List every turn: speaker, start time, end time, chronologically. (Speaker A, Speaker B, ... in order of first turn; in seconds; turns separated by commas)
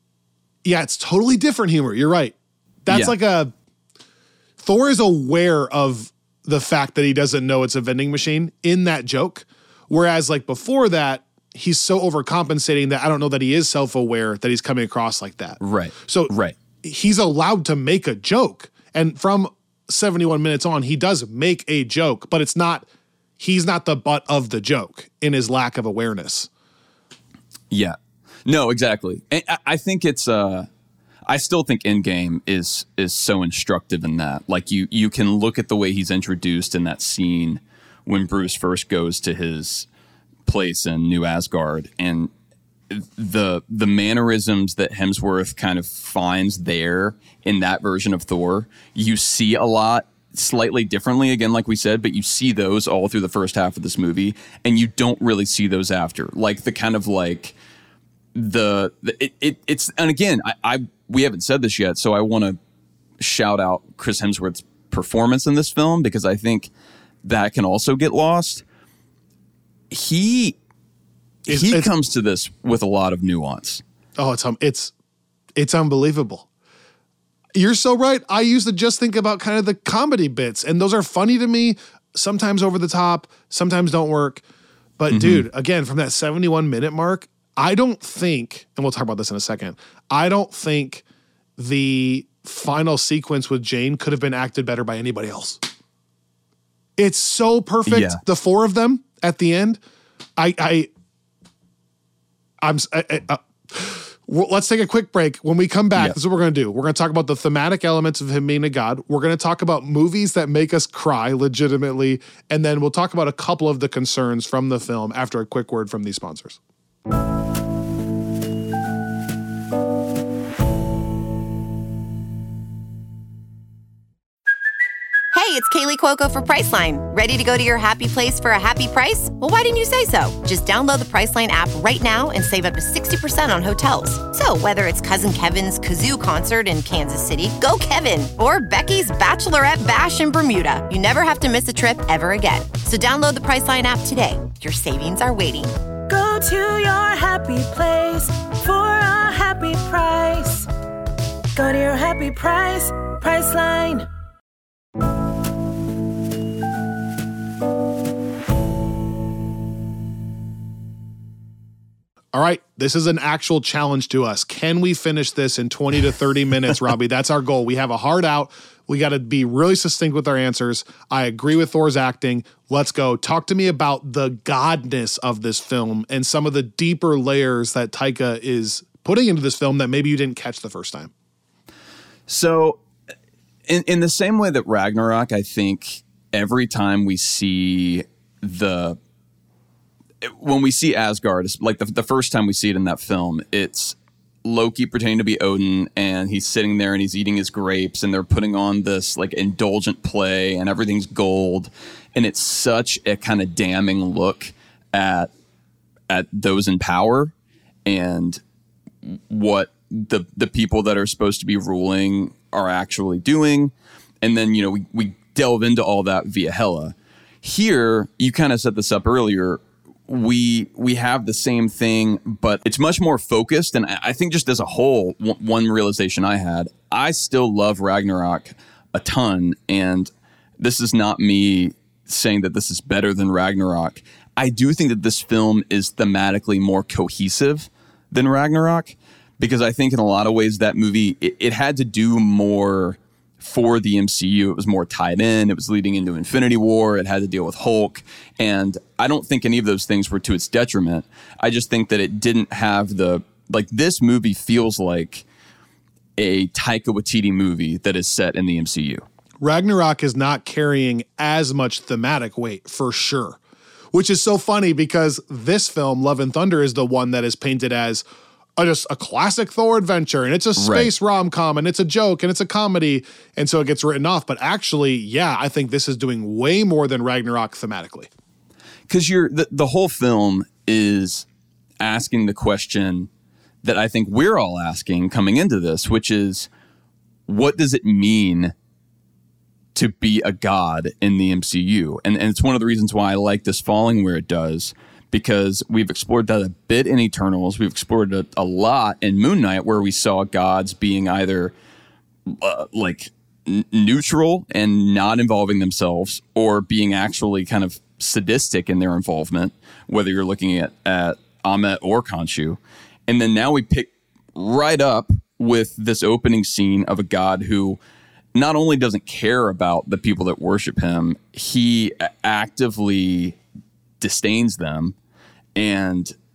Speaker A: 0.6-3.5, Speaker B: 2.9-3.1, Speaker A: 4.6-16.3, Speaker B: 15.6-16.5, Speaker A: 16.8-22.9, Speaker A: 23.4-26.5, Speaker B: 27.7-30.7, Speaker B: 31.3-39.9, Speaker B: 40.5-42.3, Speaker B: 42.9-57.5, Speaker B: 58.3-62.6, Speaker B: 63.2-66.7, Speaker B: 67.2-68.6, Speaker B: 69.9-70.5, Speaker A: 71.5-71.9, Speaker B: 71.5-73.8, Speaker A: 74.2-74.9, Speaker A: 75.5-76.5, Speaker A: 77.5-84.4, Speaker A: 85.0-91.0, Speaker B: 85.1-85.5, Speaker A: 91.6-95.6, Speaker A: 97.0-99.8, Speaker B: 97.8-98.2, Speaker A: 100.4-100.9, Speaker A: 102.6-116.6, Speaker C: 125.3-145.8, Speaker D: 146.1-150.7, Speaker D: 151.6-154.1, Speaker A: 162.3-181.1, Speaker B: 182.3-182.8, Speaker B: 183.7-189.0, Speaker B: 190.2-205.3, Speaker B: 206.1-207.3, Speaker B: 207.8-208.4, Speaker B: 209.0-255.2, Speaker B: 256.2-259.0, Speaker A: 259.4-263.4, Speaker A: 263.9-268.0, Speaker A: 268.6-278.1, Speaker B: 270.6-270.9, Speaker B: 278.9-281.2, Speaker B: 281.8-283.1, Speaker B: 283.6-286.5, Speaker B: 287.3-288.5, Speaker B: 289.7-301.5, Speaker B: 302.3-317.8, Speaker B: 318.3-323.4, Speaker B: 324.0-324.9, Speaker B: 325.6-326.1